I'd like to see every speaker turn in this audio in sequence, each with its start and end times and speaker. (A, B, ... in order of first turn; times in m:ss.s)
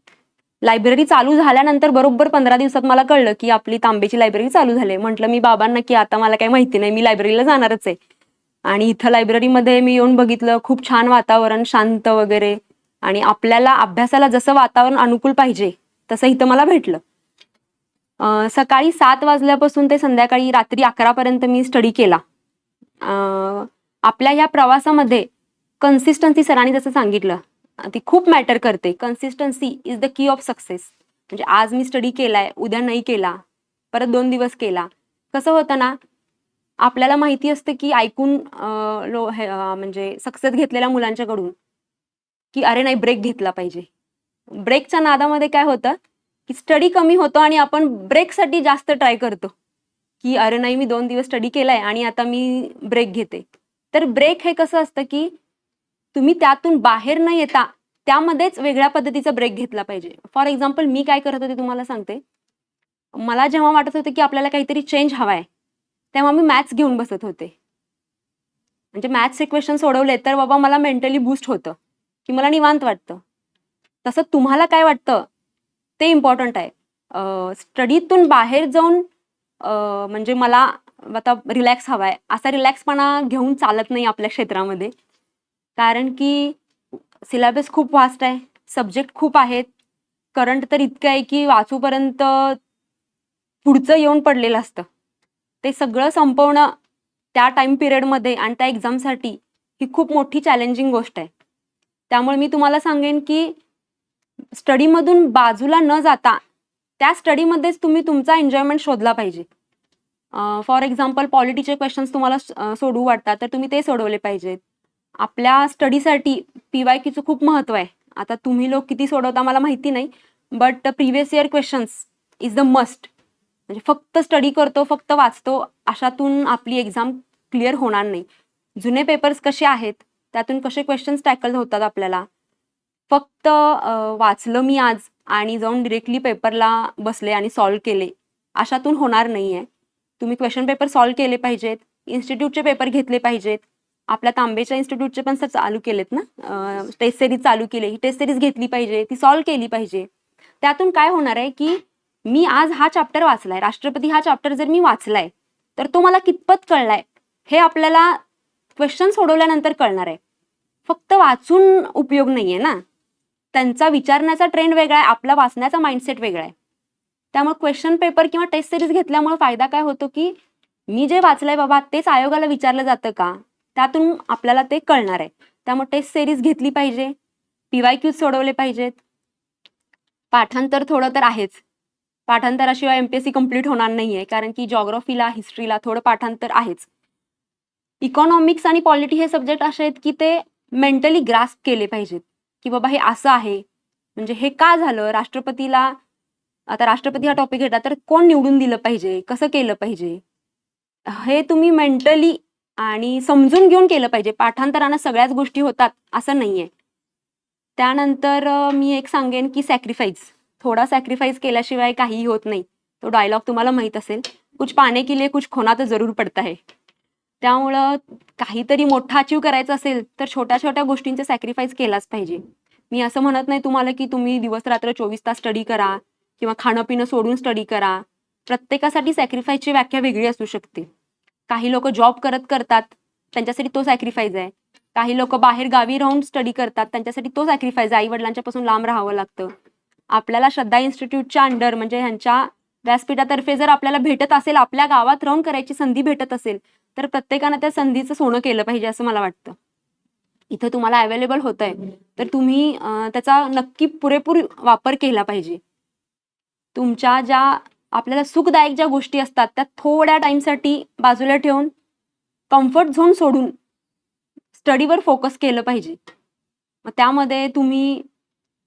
0:00.6-0:08.0 A
0:08.7-0:17.0 A
0:18.2-0:22.2 A
0:23.0-0:25.3 A
0:25.8-0:33.4 A
0:33.9-0:36.0 A
0:36.8-0:41.5 A
0:42.5-0:43.9 A
0:44.5-0:46.0 A
0:46.5-0:49.5 A
0:50.2-0:55.3 A
0:56.1-1:02.2 A
1:03.2-1:05.5 A
1:06.1-1:07.5 A
1:08.9-1:11.8 A
1:12.3-1:13.2 A
1:14.0-1:15.3 A
1:16.0-1:19.0 A
1:19.6-1:24.9 A
1:25.8-1:26.6 A
1:27.2-1:29.7 A
1:30.3-1:32.6 A
1:33.6-1:34.8 A
1:35.6-1:36.7 A
1:37.3-1:41.3 A
1:42.1-1:43.6 A
1:44.5-1:46.4 A
1:47.0-1:49.4 A
1:50.3-1:54.6 A
1:55.2-2:03.1 A
2:03.7-2:08.2 A
2:08.8-2:12.2 A
2:13.1-2:19.7 A
2:20.2-2:30.1 A
2:30.6-2:38.2 A
2:38.8-2:40.2 A
2:40.8-2:42.8 A
2:43.5-2:46.5 A
2:47.3-2:50.3 A
2:50.9-2:57.1 A
2:57.7-2:59.0 A
3:00.3-3:01.6 A
3:02.3-3:06.9 A
3:08.0-3:13.6 A
3:14.2-3:16.0 A
3:16.7-3:20.2 A
3:21.1-3:26.7 A
3:27.8-3:36.6 A
3:37.4-3:50.9 A
3:51.5-3:59.5 A
4:00.1-4:09.6 A
4:10.5-4:15.6 A
4:16.7-4:21.7 A
4:22.5-4:23.5 A
4:24.5-4:26.0 A
4:26.8-4:28.0 A